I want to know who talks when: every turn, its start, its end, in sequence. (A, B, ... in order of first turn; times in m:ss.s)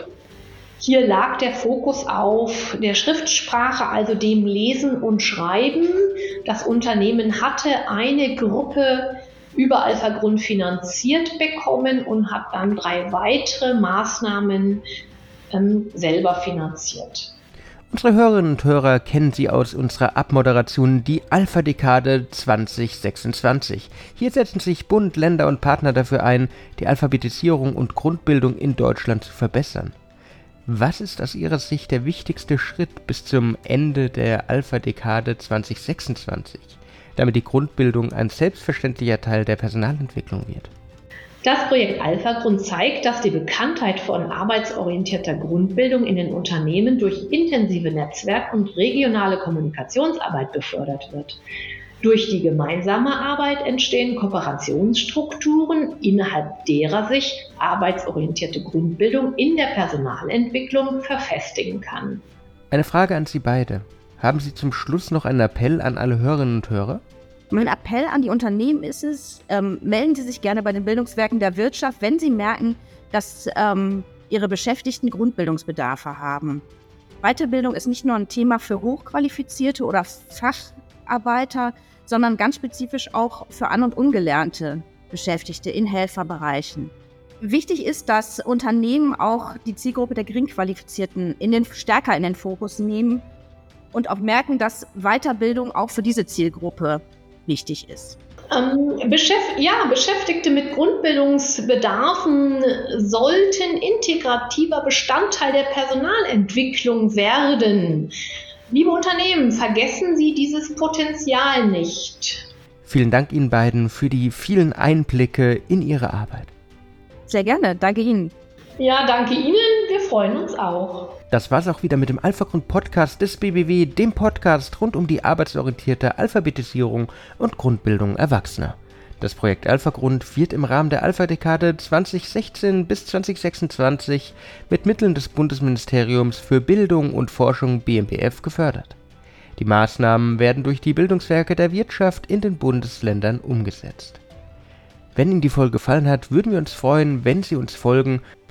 0:00.8-0:14.8 A
0:15.5-0:17.3 A
0:17.9-0:30.0 B
0:30.7-0:40.7 B
0:41.4-0:51.4 A
0:52.0-1:02.2 A
1:02.7-1:07.0 B
1:07.5-1:16.6 C
1:17.2-1:33.3 C
1:33.9-1:38.2 C
1:38.5-1:48.1 A
1:48.7-1:52.5 A
1:52.8-1:56.5 B
1:57.3-1:58.3 C
1:58.8-2:01.2 A
2:01.3-2:19.0 B
2:19.6-2:24.2 B
2:25.2-2:28.2 B